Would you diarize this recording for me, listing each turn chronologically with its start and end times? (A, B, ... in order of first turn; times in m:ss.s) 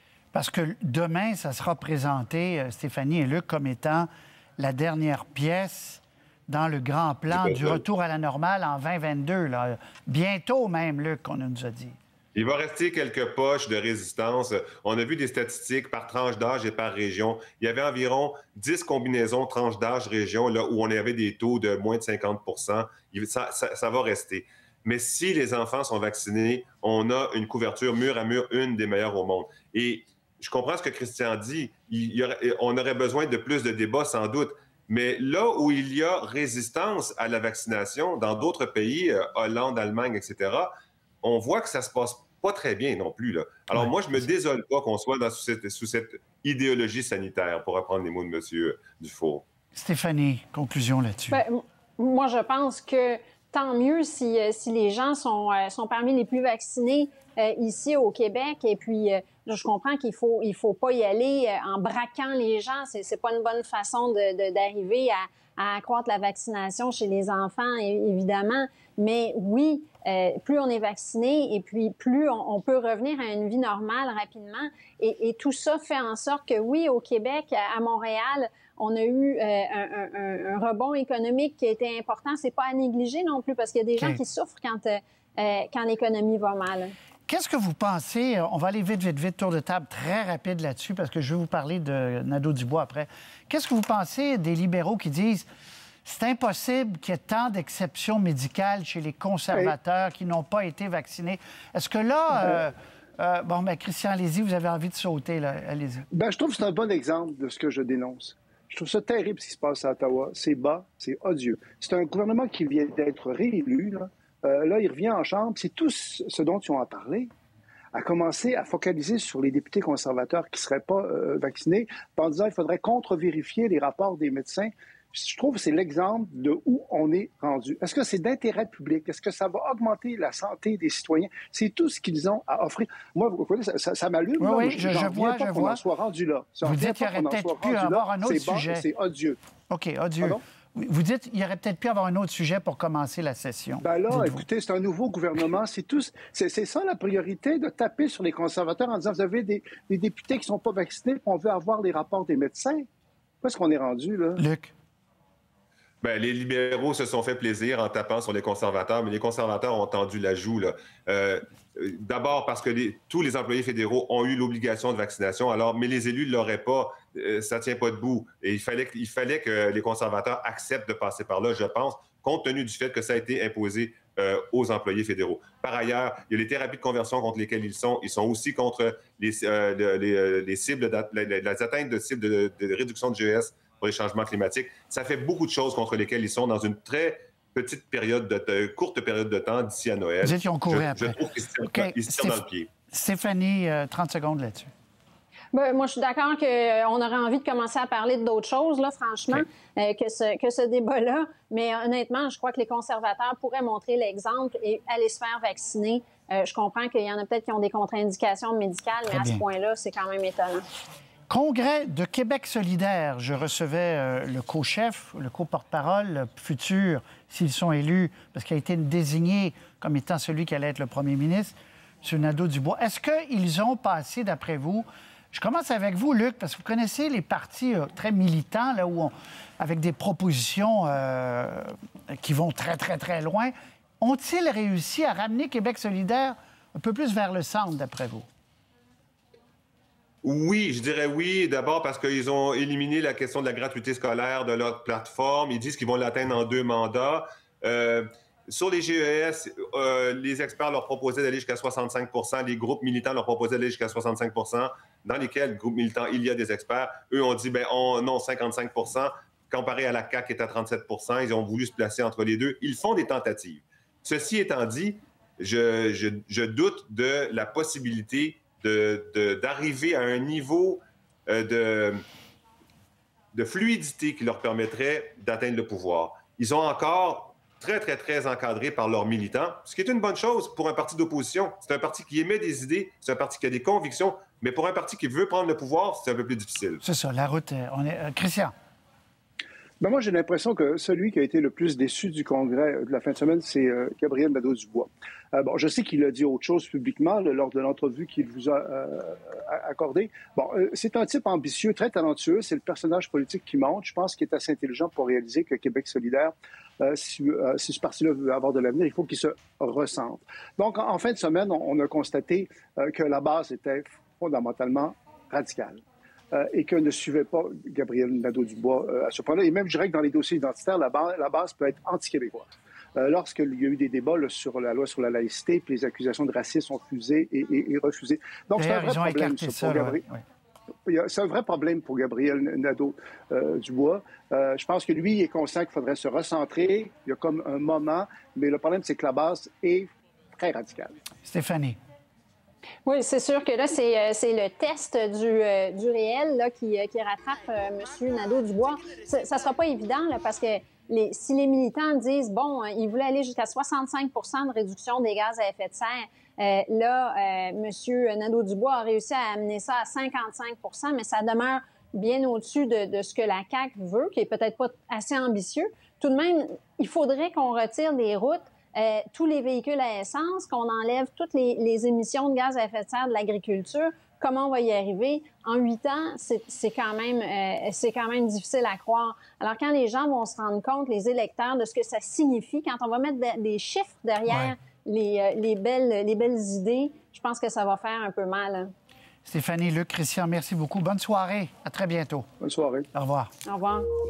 0:00.3-0:12.0 A
0:07.3-0:07.8 B
0:12.3-0:40.7 B
0:41.2-0:49.4 B
0:49.7-0:51.4 A
0:51.3-1:26.9 C
1:27.3-1:35.4 A
1:36.0-1:46.0 A
1:46.1-1:57.3 D
1:57.9-2:19.4 D
2:14.4-2:15.8 A
2:16.6-2:18.8 A
2:19.7-2:24.4 A
2:23.8-2:32.8 D
2:33.4-2:34.4 D
2:34.4-2:34.7 A
2:36.0-3:12.7 B
3:10.2-3:14.7 A
3:15.5-3:30.6 C
3:29.1-3:29.4 A
3:31.3-3:58.2 A
4:00.2-4:32.0 B
4:33.3-4:46.8 B
4:46.8-4:48.5 A
4:49.8-5:15.8 D
5:16.3-5:30.0 D
5:28.5-5:30.2 A
5:30.8-5:40.9 D
5:41.2-5:41.8 A
5:42.8-6:28.7 C
6:24.3-6:24.5 A
6:29.2-6:32.3 A
6:32.4-6:32.9 D
6:32.9-6:33.3 A
6:33.4-6:33.9 C